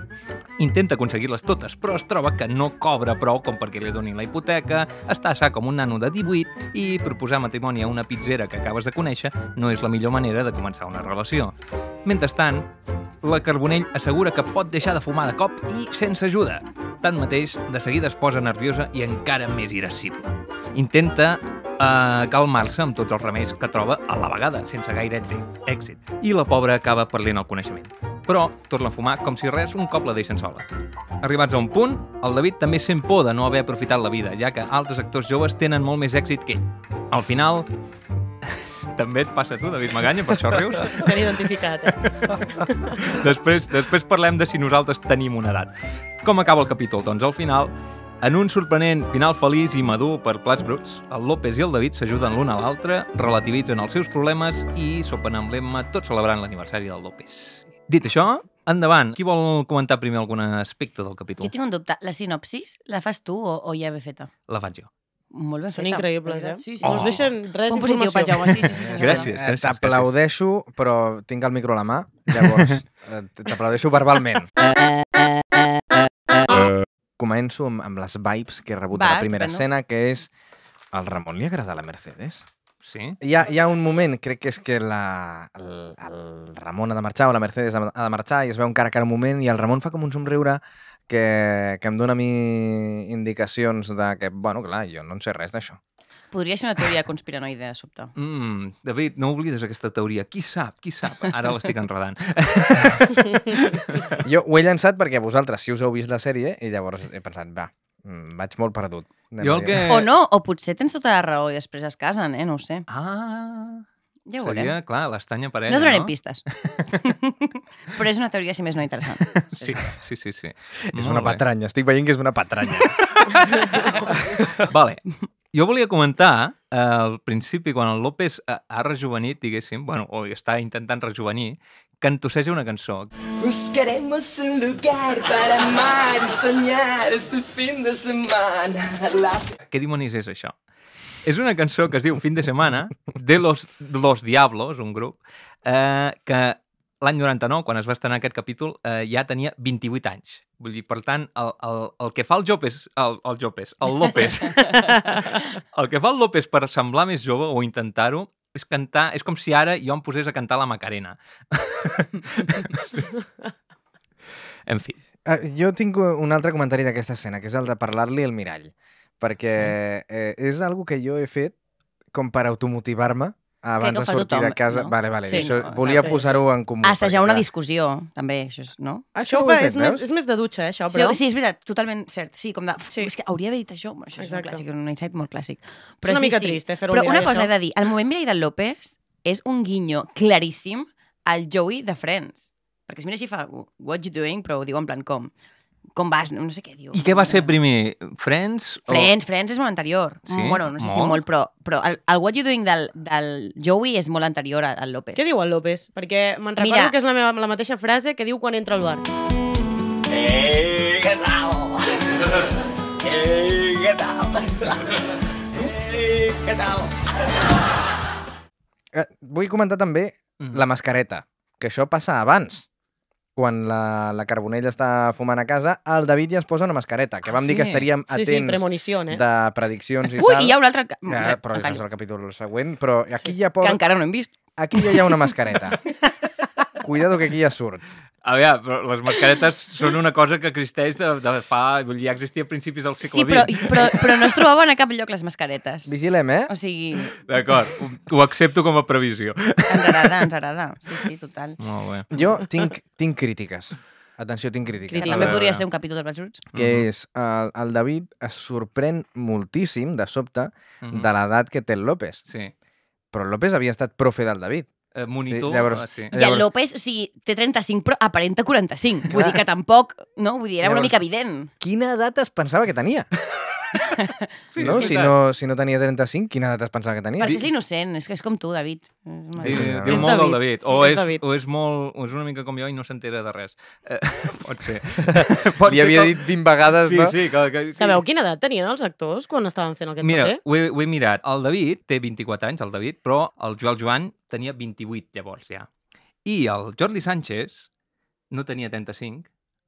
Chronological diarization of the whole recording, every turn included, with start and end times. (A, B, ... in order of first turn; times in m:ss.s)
0:00.6-0:12.7 A
0:13.2-0:30.6 A
0:31.2-0:37.7 A
0:38.4-0:41.1 A
0:40.8-0:42.0 B
0:42.0-1:01.5 A
1:01.4-1:04.3 C
1:04.5-1:04.9 A
1:05.3-1:09.3 C
1:05.7-1:09.0 B
1:06.8-1:07.2 A
1:08.7-1:14.5 D
1:09.0-1:10.1 A
1:12.4-1:12.7 A
1:17.2-1:20.3 D
1:18.9-1:19.6 C
1:20.9-1:22.4 D
1:22.8-1:23.2 A
1:23.2-1:35.8 D
1:36.3-1:38.1 C
1:38.1-1:44.2 A
1:44.2-1:49.9 D
1:49.4-1:50.1 A
1:49.8-1:52.8 C
1:52.9-1:53.8 A
1:54.3-1:54.8 C
1:54.4-1:56.9 A
1:55.7-1:59.4 C
1:59.3-2:01.4 A
2:00.9-2:03.2 D
2:03.0-2:13.1 A
2:13.7-2:18.9 E
2:19.6-2:20.6 A
2:21.2-2:34.8 A
2:34.6-2:35.4 B
2:35.7-2:43.1 A
2:44.7-2:45.0 A
2:45.2-2:51.5 D
2:52.1-2:57.4 D
2:53.8-2:59.1 C
2:55.3-2:56.2 B
2:59.1-3:00.0 D
2:59.2-3:01.2 B
3:00.9-3:15.3 C
3:04.2-3:04.6 B
3:06.0-3:07.5 B
3:15.9-3:17.5 C
3:16.9-3:19.1 A
3:18.9-3:25.2 C
3:20.3-3:21.2 A
3:25.1-3:29.0 B
3:26.6-3:26.9 C
3:38.9-3:42.6 D
3:40.4-3:40.6 A
3:43.4-3:53.8 D
3:47.3-3:47.8 A
3:48.1-3:49.2 B
3:50.1-3:51.8 C
3:53.6-3:55.1 C
3:54.6-3:55.8 D
3:56.8-3:57.9 D
3:58.2-4:04.4 A
4:03.0-4:05.9 C
4:05.8-4:06.5 D
4:06.5-4:07.2 C
4:07.2-4:10.2 A
4:09.7-4:11.6 C
4:11.6-4:12.1 A
4:12.1-4:15.4 D
4:14.9-4:15.3 B
4:15.0-4:16.4 C
4:15.1-4:15.6 A
4:16.5-4:16.9 A
4:16.5-4:22.2 D
4:20.8-4:21.1 A
4:22.2-4:22.5 A
4:23.1-4:24.7 D
4:24.9-4:26.1 A
4:25.3-4:26.5 D
4:26.1-4:31.5 C
4:29.1-4:29.4 D
4:30.6-4:31.0 D
4:31.6-4:33.1 D
4:33.8-4:34.9 C
4:34.5-4:35.2 A
4:34.6-4:37.4 D
4:37.2-4:39.8 C
4:39.4-4:40.1 D
4:39.4-4:48.0 A
4:39.9-4:41.2 B
4:45.0-4:47.1 D
4:47.8-4:50.4 B
4:50.0-4:55.7 A
4:56.2-4:57.7 A
4:58.3-4:59.3 A